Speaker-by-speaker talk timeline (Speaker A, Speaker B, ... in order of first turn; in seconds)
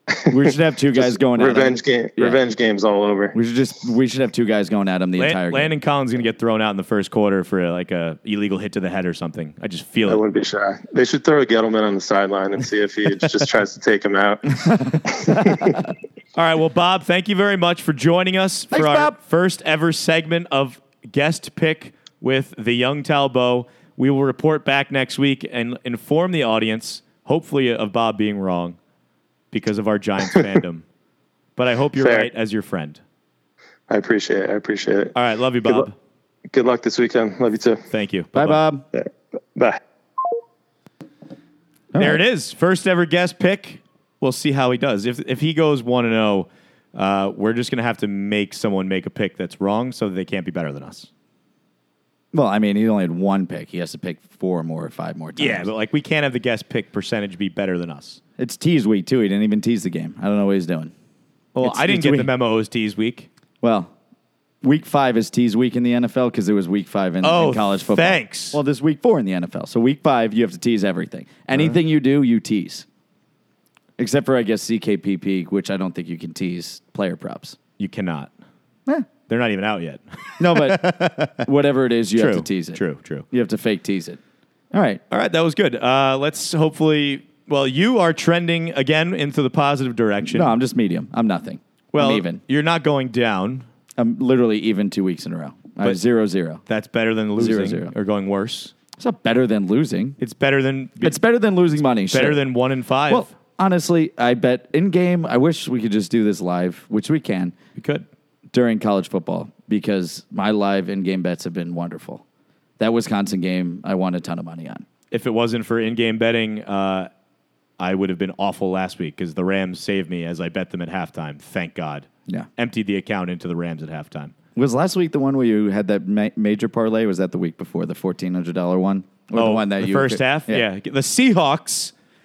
Speaker A: 0.2-3.4, 10.1-15.8, 32.0-32.3, 33.9-35.1, 36.5-37.8, 38.9-39.8
Speaker B: 0.3-2.4, 3.3-5.8, 15.4-15.7, 18.7-19.1, 38.3-38.8, 41.9-42.2, 52.3-55.7, 58.4-60.9, 61.6-62.3, 63.6-63.9, 64.6-72.9, 74.0-77.6, 80.4-84.2, 84.7-85.0, 90.3-92.4, 94.0-96.6, 97.4-97.9, 99.0-100.2, 101.0-102.4, 103.1-107.5, 108.5-112.2, 112.8-114.9, 124.5-130.7
Speaker C: 5.2-10.2, 16.4-28.8, 29.5-30.8, 31.6-33.0, 35.1-36.0, 37.9-38.6, 42.0-51.1, 55.4-58.2, 61.5-63.3, 67.2-68.6, 77.8-78.3, 79.3-81.5, 82.2-83.3, 85.1-90.5, 91.9-93.7, 96.7-98.7, 100.2-101.2, 101.8-103.3, 107.8-108.0, 115.1-117.1, 117.8-124.3, 129.3-131.9